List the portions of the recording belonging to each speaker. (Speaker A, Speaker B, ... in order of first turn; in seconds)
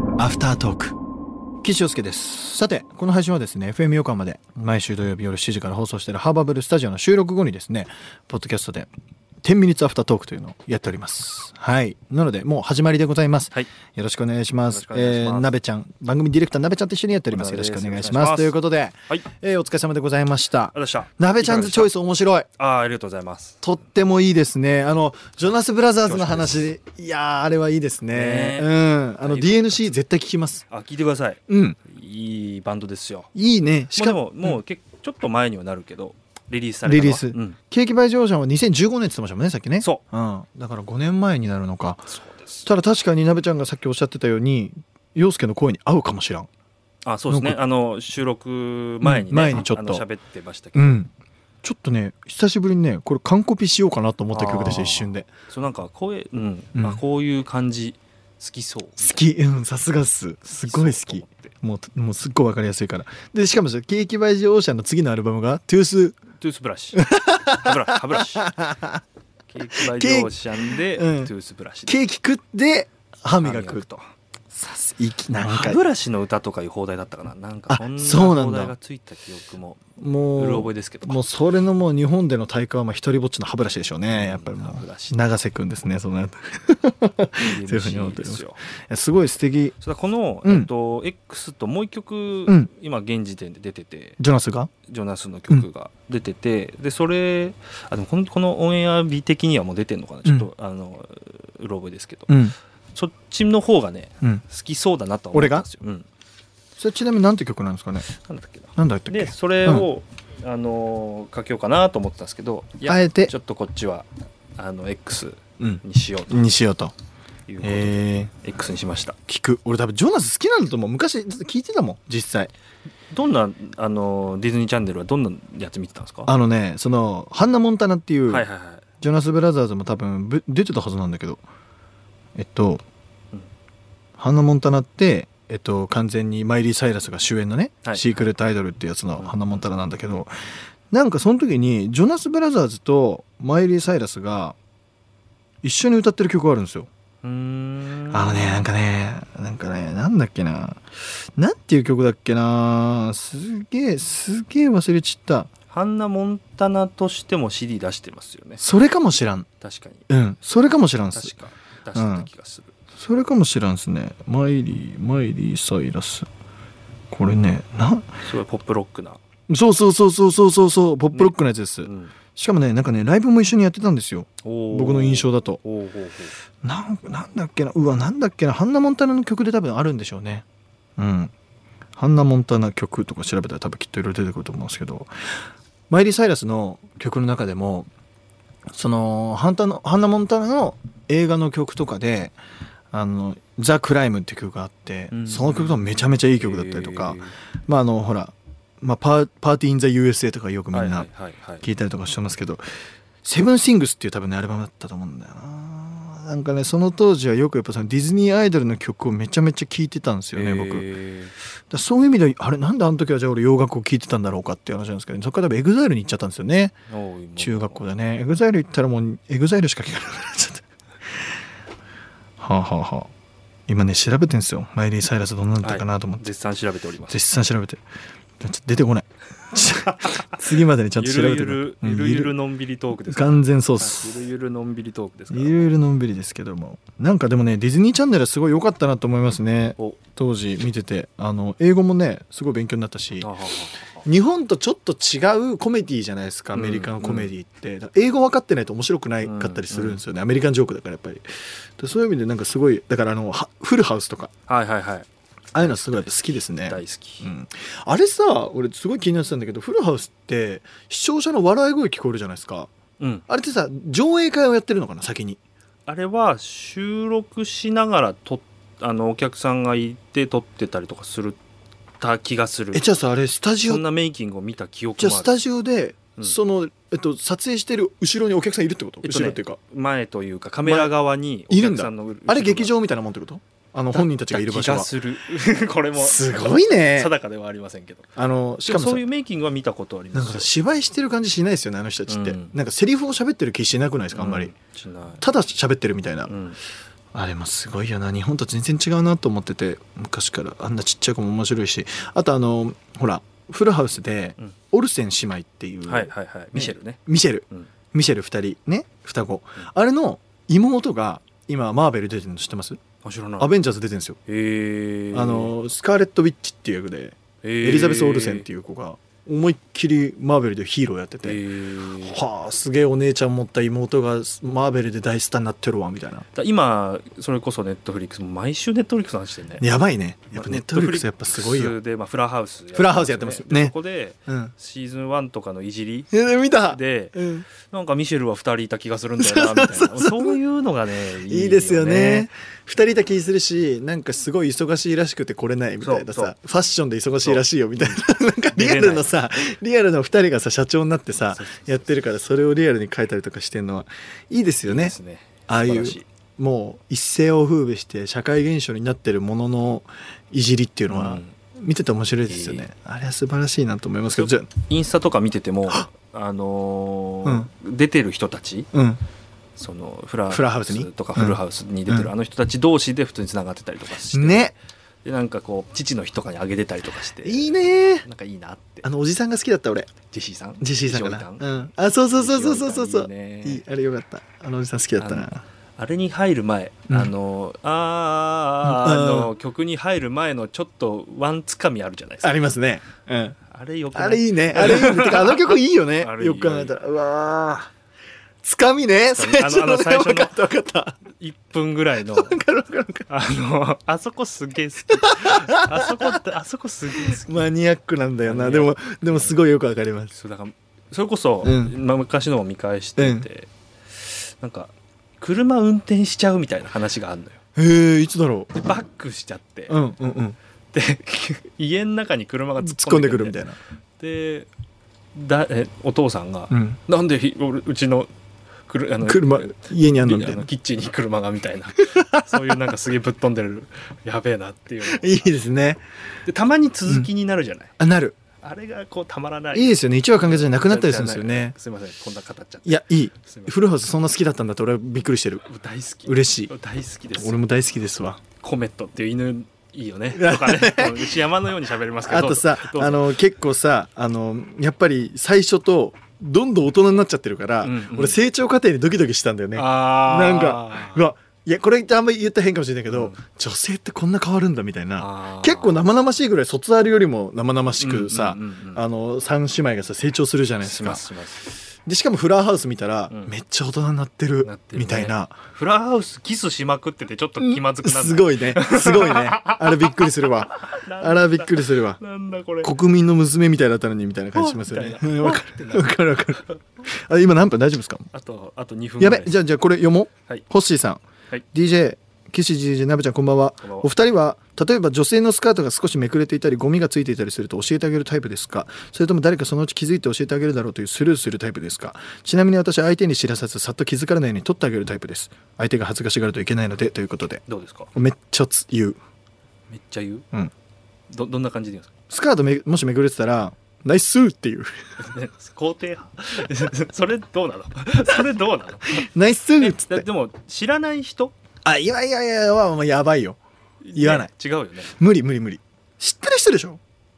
Speaker A: 0.2-1.0, 1.6-8.9, 9.4-22.5, 23.6-30.6, 31.5-31.8, 33.4-34.6, 36.9-42.1, 42.6-46.5, 47.3-47.6, 49.0-50.1, 50.8-51.1, 51.6-55.3, 56.8-57.0, 59.0-66.2, 66.9-69.0, 69.7-71.3, 71.9-73.9, 74.5-75.8, 77.7-78.8, 80.0-89.8, 90.5-90.7, 94.2-94.7, 102.3-102.5, 105.3-105.7, 106.8-108.1, 108.8-109.9, 112.8-113.3, 115.6-116.9, 117.6-118.4, 119.3-122.5, 126.3-128.5, 129.0-131.4, 132.4-132.8, 134.2-140.3, 140.9-144.6, 145.6-146.9, 148.1-150.8, 151.4-155.5, 158.6-159.5, 160.1-161.3, 161.9-162.3, 163.0-166.3, 167.1-168.2, 169.5-175.6, 176.6-180.4, 181.0-181.3, 182.0-185.4, 185.9-187.9, 188.7-192.4, 192.9-201.1, 201.6-202.6, 203.2-210.9, 211.7-216.8, 217.4-220.7, 222.4-223.1, 223.7-226.3, 227.1-227.8, 228.4-232.4, 233.0-234.3, 235.3-243.3, 244.0-251.3, 251.8-254.3, 255.5-262.7, 263.3-265.4, 272.7-273.8, 275.0-279.6, 280.6-280.9, 281.5-284.9, 286.0-287.1, 288.2-289.0, 290.1-294.5, 295.2-296.4, 297.1-312.8, 313.4-314.2, 315.1-321.4, 322.0-326.3, 329.6-331.8, 332.8-333.8, 334.3-334.5, 336.1-337.5, 339.2-340.4, 341.1-355.0, 355.5-364.5, 368.7-369.0, 370.3-372.1, 374.1-374.6, 377.2-378.1, 378.8-379.9, 380.6-385.4, 386.9-387.1, 388.6-389.3, 392.2-393.4, 393.9-397.7, 398.4-401.0, 402.0-403.1, 404.9-406.2, 407.0-410.1, 411.4-411.8, 413.0-413.3, 417.6-418.7, 419.7-420.4, 422.6-423.6, 426.5-426.8, 429.0-430.4, 431.8-432.6, 434.8-435.8, 437.8-438.2, 439.5-441.5, 442.6-445.5, 446.1-446.5, 447.1-448.2, 450.1-451.2, 452.0-471.1, 471.9-475.4, 477.4-482.0, 482.6-488.1, 489.0-491.0, 491.5-507.4, 507.9-509.0, 512.1-514.8, 518.9-520.1, 521.6-523.4, 523.9-524.3, 524.9-526.8
Speaker B: 14.7-15.5, 17.3-18.6, 20.7-21.9, 22.6-23.6, 26.1-26.7, 28.1-29.9, 30.7-33.3, 33.9-37.6, 42.1-42.7, 47.0-51.0, 54.3-59.2, 60.5-61.5, 66.3-68.5, 69.5-72.0, 73.4-74.1, 75.4-81.2, 84.1-85.2, 87.4-88.6, 89.8-94.2, 94.9-102.4, 102.9-106.1, 108.1-116.5, 117.5-119.2, 123.1-126.3, 128.3-128.8, 137.8-138.3, 147.2-148.6, 155.7-158.6, 159.6-160.1, 161.1-162.8, 168.2-169.2, 171.1-172.1, 174.4-176.3, 195.1-197.3, 200.7-201.7, 210.3-211.3, 216.9-217.9, 225.6-227.2, 229.9-230.3, 230.9-235.7, 243.2-244.0, 246.5-247.3, 249.2-250.0, 254.5-257.3, 263.0-263.2, 265.9-271.4, 272.0-273.0, 273.6-275.3, 279.0-282.7, 283.9-288.1, 288.6-290.5, 292.1-292.6, 294.1-295.2, 296.3-296.6, 305.9-307.7, 313.0-313.5, 314.3-315.5, 317.4-318.5, 321.2-322.2, 326.3-329.7, 330.3-336.1, 336.7-342.3, 345.8-346.3, 347.2-349.1, 351.2-351.9, 354.6-356.1, 360.9-361.4, 362.3-362.7, 364.1-368.7, 369.6-378.9, 380.1-383.6, 385.0-392.4, 393.5-396.8, 399.2-400.4, 401.1-402.4, 403.1-407.4, 408.2-409.4, 410.1-417.4, 418.6-419.8, 420.7-423.4, 424.0-424.5, 425.1-428.1, 428.7-435.4, 436.2-437.7, 438.4-443.6, 445.4-447.4, 448.4-453.2, 457.6-458.2, 459.6-461.0, 462.9-463.2, 465.0-465.9, 467.8-468.8, 470.6-471.6, 474.4-482.8, 484.3-486.5, 488.1-489.4, 493.6-493.9, 507.5-507.9, 509.7-510.3, 511.1-511.9, 515.0-519.1, 519.6-521.4, 523.8-525.0